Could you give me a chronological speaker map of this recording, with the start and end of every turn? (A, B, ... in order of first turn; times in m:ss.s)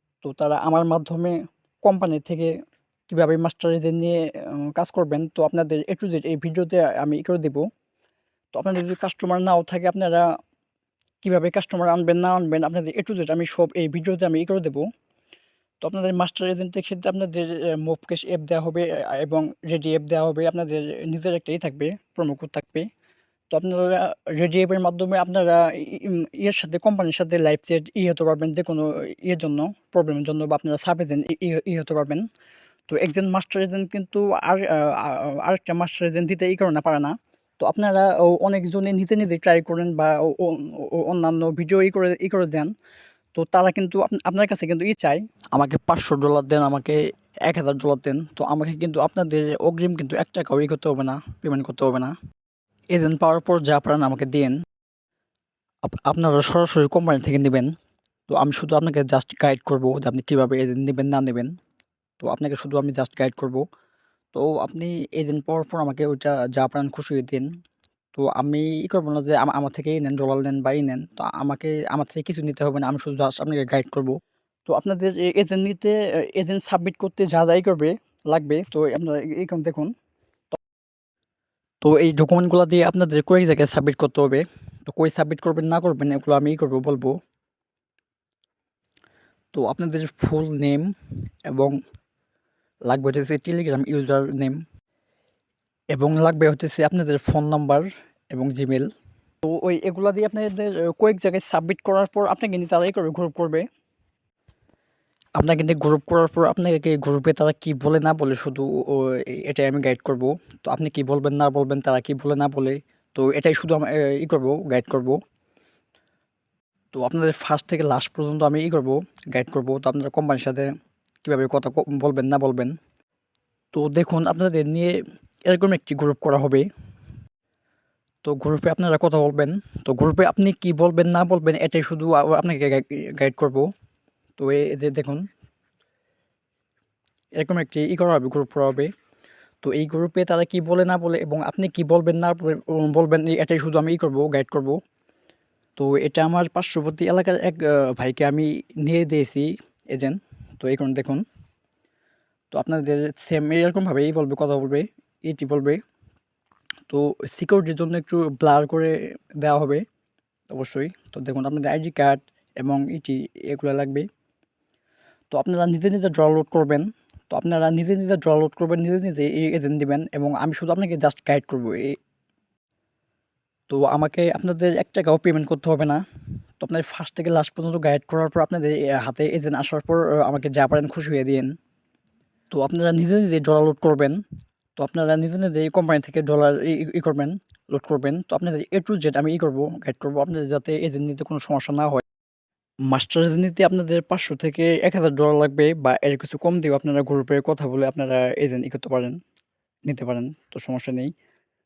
0:00.2-0:02.5 A
0:03.1-0:07.7 A
0:08.5-0:10.3 A
0:11.2-0:14.9 A
0:15.8-0:22.9 A
0:23.5-0:32.3 A
0:32.9-0:42.7 A
0:43.4-0:52.2 A
0:52.9-0:54.6 A
0:55.8-0:57.7 A
0:58.3-1:01.5 A
1:02.2-1:03.6 A
1:04.3-1:07.5 A
1:08.1-1:19.9 A
1:21.8-1:27.2 A
1:29.5-1:30.9 A
1:31.4-1:31.8 A
1:32.9-1:34.6 A
1:35.9-1:38.9 A
1:39.4-1:43.7 A
1:45.4-1:55.2 A
1:56.9-2:00.7 A
2:01.2-2:02.8 A
2:03.7-2:06.7 A
2:08.2-2:13.7 A
2:14.4-2:15.3 A
2:17.4-2:18.9 A
2:19.6-2:24.8 A
2:25.8-2:31.2 A
2:32.5-2:35.8 A
2:36.9-2:39.8 A
2:40.5-2:44.1 A
2:45.3-2:52.0 A
2:53.7-2:56.0 A
2:56.6-3:01.6 A
3:02.5-3:04.2 A
3:04.8-3:12.0 A
3:12.9-3:19.2 A
3:19.9-3:21.1 A